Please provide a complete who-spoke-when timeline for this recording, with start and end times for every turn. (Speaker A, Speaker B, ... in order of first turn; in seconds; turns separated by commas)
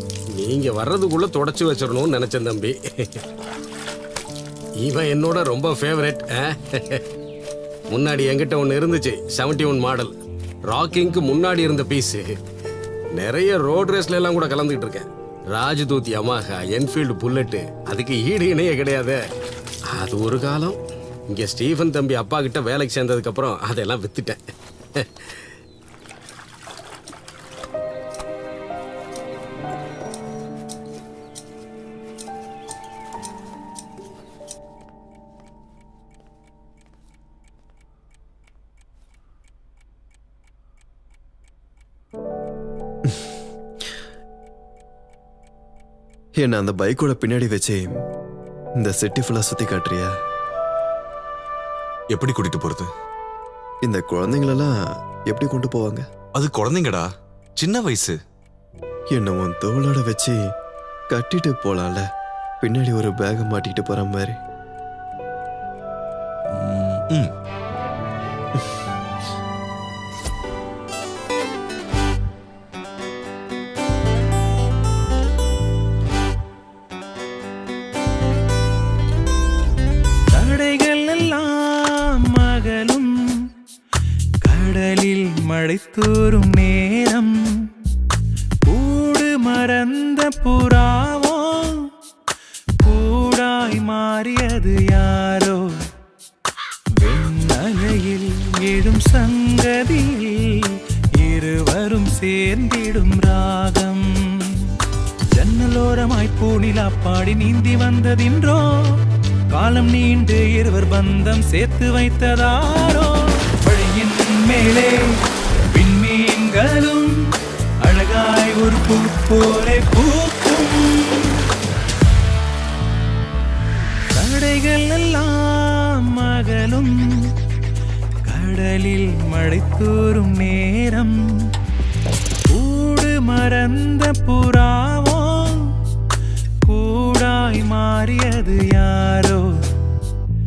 Speaker A: 0.3-3.2, Speaker A: 4.8-7.0, Speaker A: 7.9-10.1, Speaker A: 10.7-12.3, Speaker A: 13.1-19.2, Speaker A: 19.9-20.8, Speaker A: 21.3-24.4, Speaker A: 24.9-25.4, Speaker B: 46.4-47.9, Speaker B: 48.8-50.1, Speaker C: 52.1-52.9, Speaker B: 53.8-54.7, Speaker B: 55.3-56.0, Speaker C: 56.3-58.2, Speaker B: 59.1-60.4, Speaker B: 61.1-62.0, Speaker B: 62.6-64.3, Speaker C: 66.5-67.3, Speaker D: 80.3-83.5, Speaker D: 84.4-87.7, Speaker D: 88.6-91.9, Speaker D: 92.8-95.8, Speaker D: 97.0-104.7, Speaker D: 105.3-117.2, Speaker D: 117.8-121.4, Speaker D: 124.1-127.3, Speaker D: 128.2-131.2, Speaker D: 132.5-135.8, Speaker D: 136.6-139.6